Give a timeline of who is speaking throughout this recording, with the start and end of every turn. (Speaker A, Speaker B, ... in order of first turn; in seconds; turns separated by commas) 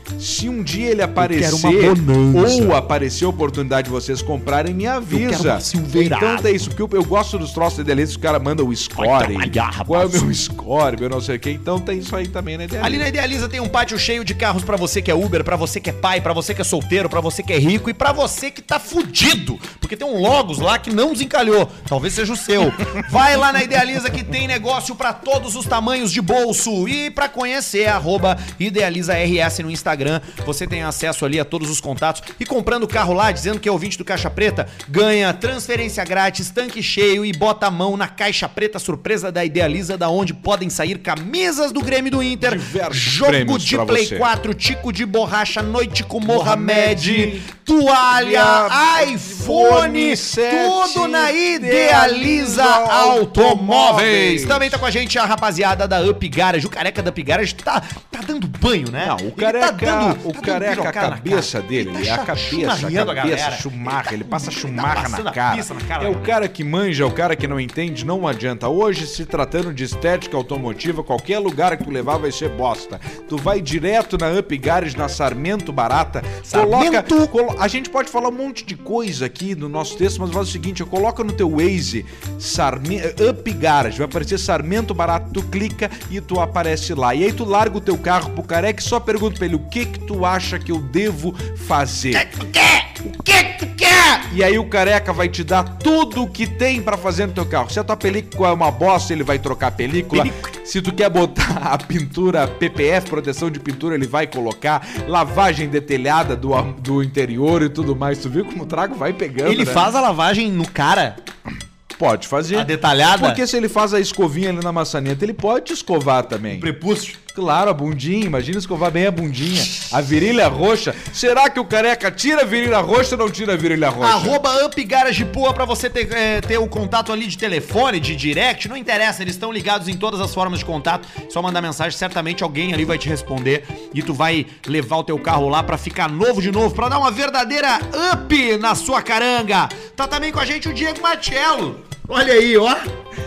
Speaker A: 0.2-13.1, Speaker B: 1.2-2.8, Speaker B: 5.1-6.5, Speaker B: 9.0-10.2, Speaker B: 12.8-66.3, Speaker A: 42.4-44.3, Speaker A: 46.2-47.5, Speaker A: 48.1-54.8, Speaker A: 59.0-92.3, Speaker B: 76.5-77.3, Speaker B: 92.1-94.0, Speaker A: 93.0-109.9, Speaker B: 100.1-100.5, Speaker B: 109.4-111.2, Speaker A: 112.0-116.7, Speaker B: 112.5-113.4, Speaker B: 116.5-117.2, Speaker A: 117.3-124.4, Speaker B: 124.0-142.8